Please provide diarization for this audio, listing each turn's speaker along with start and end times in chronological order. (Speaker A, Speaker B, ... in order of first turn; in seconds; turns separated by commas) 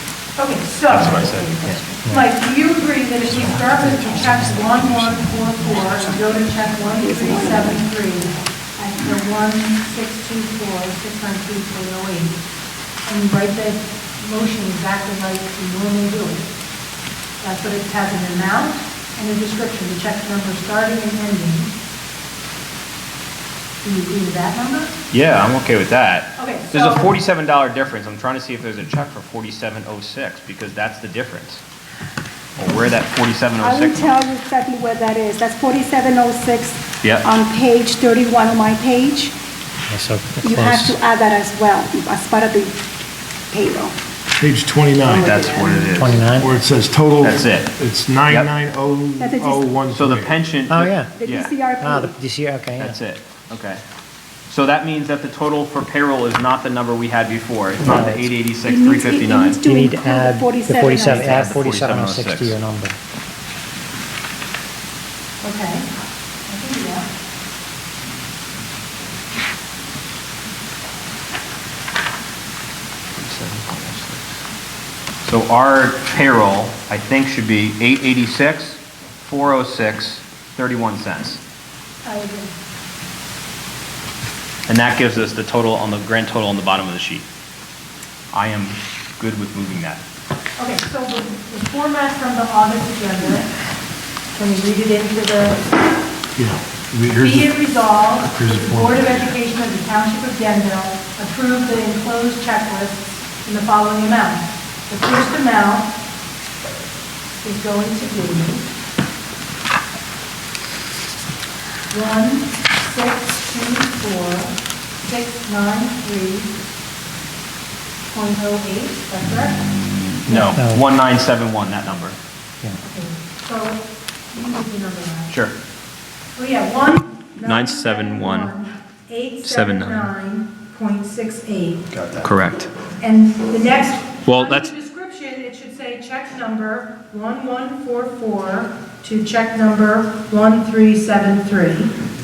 Speaker A: 0.4-1.2, Speaker B: 0.9-1.7, Speaker C: 1.3-1.8, Speaker D: 1.6-2.3, Speaker A: 2.1-12.4, Speaker D: 3.4-4.8, Speaker C: 6.8-7.8, Speaker A: 13.1-16.5, Speaker A: 17.4-21.7, Speaker A: 23.8-24.9, Speaker B: 25.1-31.6, Speaker A: 26.4-27.1, Speaker B: 32.6-34.2, Speaker C: 33.6-39.3, Speaker B: 37.0-37.3, Speaker D: 39.9-41.0, Speaker C: 40.4-42.8, Speaker C: 43.5-43.9, Speaker E: 44.4-45.7, Speaker C: 45.0-46.2, Speaker B: 45.0-46.2, Speaker D: 46.0-46.5, Speaker E: 46.3-50.4, Speaker B: 47.2-47.7, Speaker C: 49.2-49.7, Speaker B: 49.9-51.5, Speaker D: 50.7-51.1, Speaker C: 51.1-52.1, Speaker D: 51.8-53.0, Speaker B: 52.8-53.8, Speaker B: 54.5-59.6, Speaker D: 57.8-58.3, Speaker C: 58.6-61.6, Speaker D: 59.6-63.0, Speaker B: 60.9-62.5, Speaker A: 65.4-65.9, Speaker A: 66.5-67.1, Speaker B: 73.2-74.3, Speaker B: 75.2-81.4, Speaker A: 82.0-82.6, Speaker B: 84.7-87.3, Speaker B: 88.3-90.0, Speaker A: 90.6-93.5, Speaker A: 94.3-95.8, Speaker E: 96.4-97.7, Speaker A: 97.1-106.0, Speaker E: 98.2-99.4, Speaker A: 107.4-108.7, Speaker A: 111.9-116.5, Speaker A: 118.1-119.6, Speaker B: 119.2-122.2, Speaker A: 120.3-120.6, Speaker D: 120.5-120.8, Speaker A: 122.8-125.4, Speaker B: 125.3-125.6, Speaker A: 126.4-131.9, Speaker B: 127.4-128.5, Speaker B: 129.5-130.1, Speaker B: 131.9-132.7, Speaker A: 133.0-141.9, Speaker B: 134.2-134.7